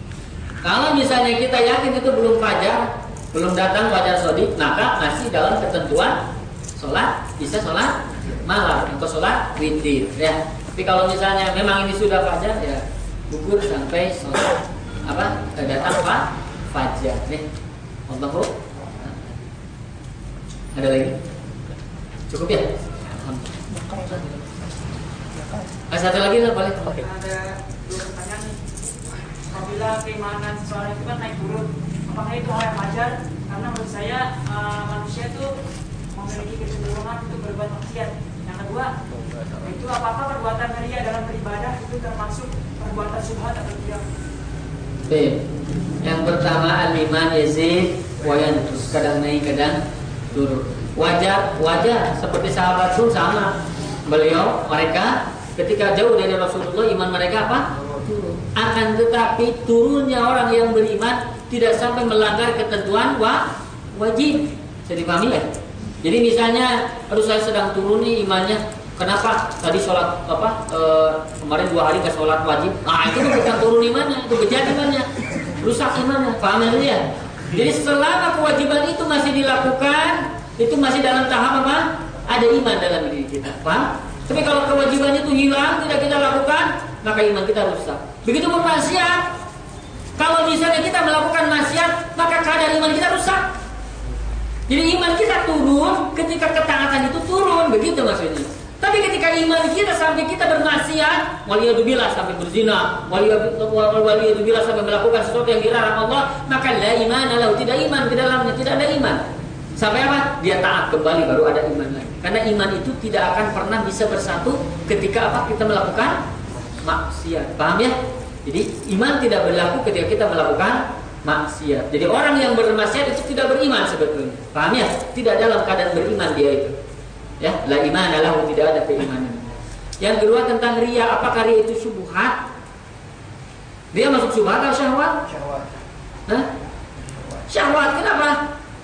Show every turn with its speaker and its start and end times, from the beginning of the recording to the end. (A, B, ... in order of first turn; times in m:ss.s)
0:00.6-0:06.2 A
0:06.8-0:17.4 A
0:18.1-0:19.3 A
0:20.7-0:21.2 A
0:22.3-0:23.6 A
0:23.7-0:24.7 B
0:25.3-0:25.7 B
0:25.9-0:26.9 A
0:27.0-0:28.6 C
0:29.5-0:35.5 C
0:36.1-0:38.9 C
0:39.6-0:44.0 C
0:45.1-0:45.4 A
0:46.0-0:53.6 A
0:54.1-1:05.5 A
1:06.0-1:29.3 A
1:30.2-1:33.5 A
1:34.7-1:49.2 A
1:49.8-1:56.2 A
1:56.8-2:06.8 A
2:07.4-2:12.4 A
2:13.9-2:15.2 A
2:15.3-2:15.8 B
2:17.5-2:18.4 A